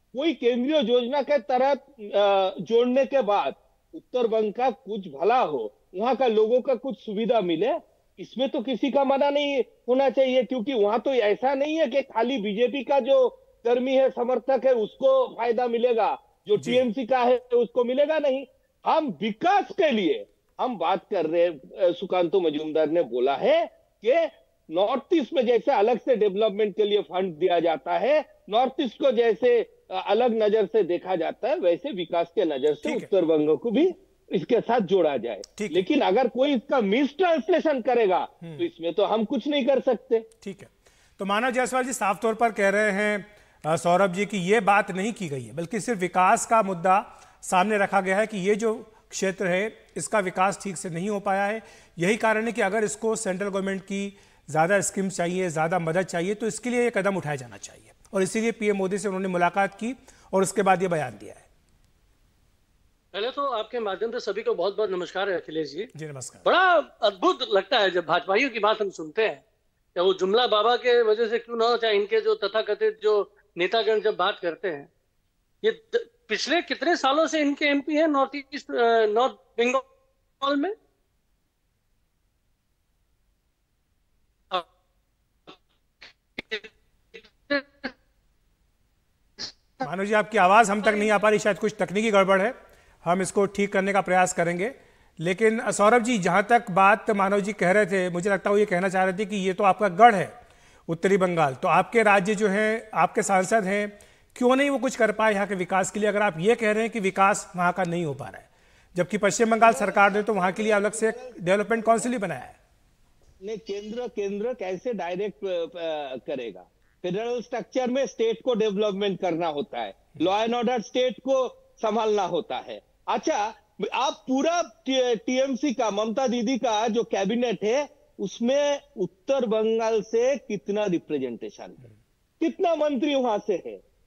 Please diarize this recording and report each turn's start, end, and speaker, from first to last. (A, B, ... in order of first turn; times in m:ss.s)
0:00.1-0:40.3 A
0:32.8-0:33.1 B
0:35.6-0:35.8 B
0:40.4-1:01.5 B
1:03.1-1:05.9 C
1:06.0-1:06.4 B
1:06.4-1:09.4 C
1:10.0-1:14.9 C
1:15.6-1:19.8 C
1:20.4-1:20.7 C
1:26.4-1:26.7 C
1:27.3-1:27.9 C
1:29.8-1:40.3 B
1:40.9-1:52.6 B
1:49.6-1:52.1 A
1:53.4-2:11.8 A
2:12.4-2:13.8 A